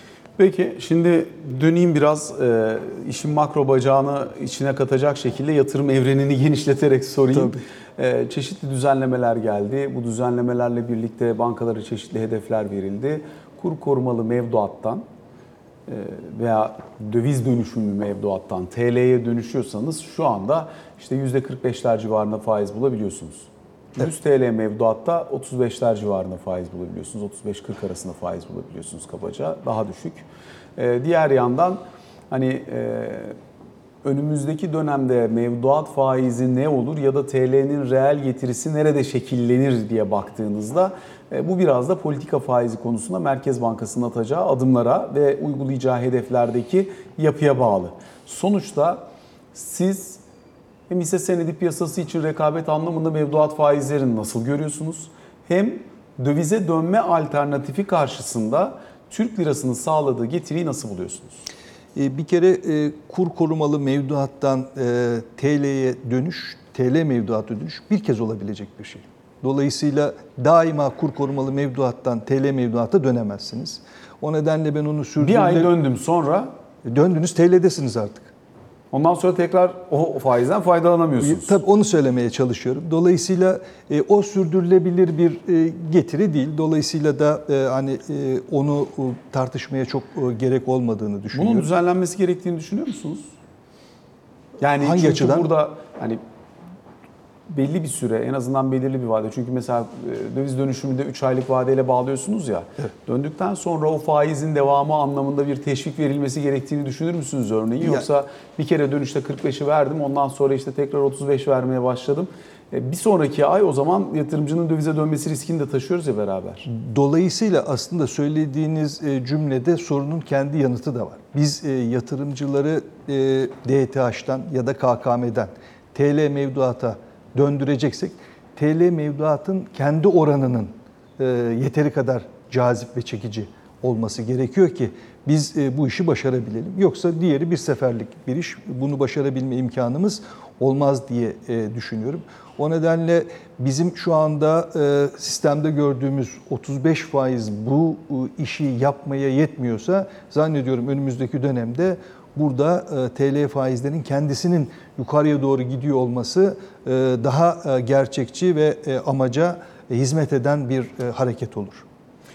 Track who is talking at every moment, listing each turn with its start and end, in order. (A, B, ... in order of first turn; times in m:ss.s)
0:00.4-0:15.0 A
0:07.3-0:07.6 B
0:15.9-0:30.3 A
0:30.8-0:33.4 A
0:34.0-0:50.2 A
0:50.9-1:01.4 A
1:02.0-1:15.7 B
1:15.2-1:16.5 A
1:16.8-1:18.3 B
1:18.9-1:21.6 A
1:21.2-1:31.7 B
1:31.3-1:33.3 A
1:34.6-1:36.2 A
1:34.8-1:35.5 B
1:37.5-1:56.7 A
1:56.7-2:41.8 B